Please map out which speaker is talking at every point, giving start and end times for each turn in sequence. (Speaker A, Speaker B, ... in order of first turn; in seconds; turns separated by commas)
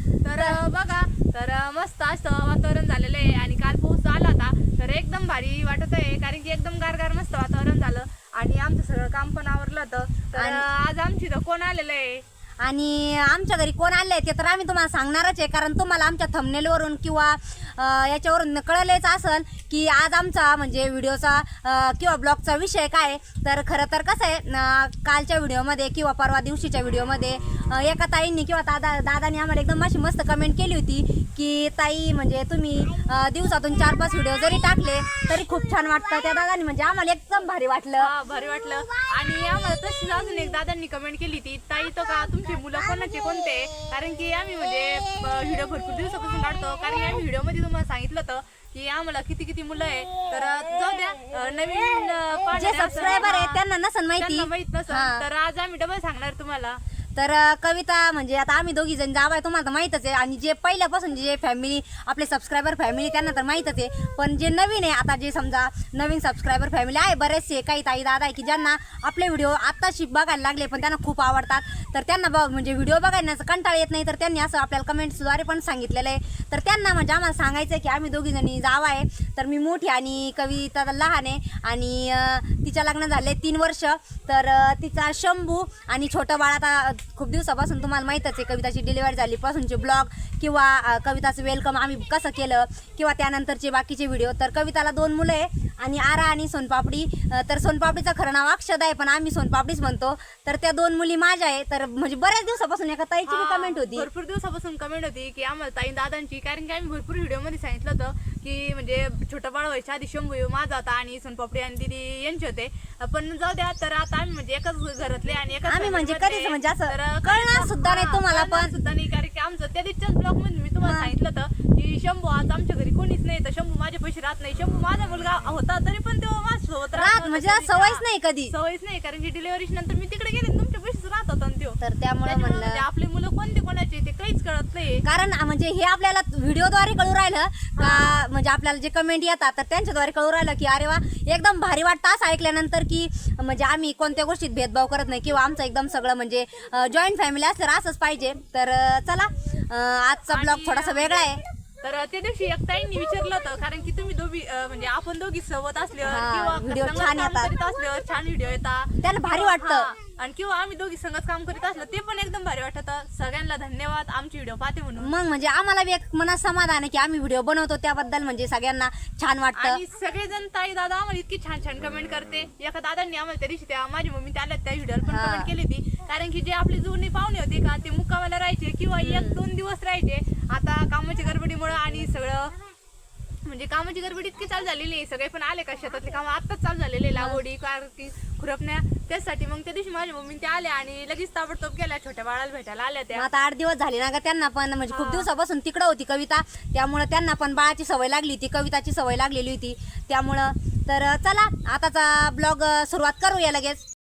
Speaker A: 0.2-12.2, Speaker B: 0.3-0.6, Speaker B: 10.4-10.7, Speaker B: 12.6-38.1, Speaker A: 38.0-53.6, Speaker B: 52.5-55.2, Speaker A: 54.2-56.8, Speaker B: 57.2-104.1, Speaker A: 103.2-135.0, Speaker B: 115.7-118.7, Speaker B: 120.8-121.1, Speaker B: 126.9-128.5, Speaker B: 131.8-132.8, Speaker B: 135.0-151.4, Speaker A: 137.8-138.2, Speaker A: 150.3-165.1, Speaker B: 156.0-157.5, Speaker B: 159.0-159.9, Speaker B: 165.0-169.8, Speaker A: 169.6-182.5, Speaker B: 175.0-175.5, Speaker B: 179.0-179.4, Speaker A: 183.4-193.3, Speaker B: 187.1-187.4, Speaker B: 193.1-203.8, Speaker A: 194.9-195.3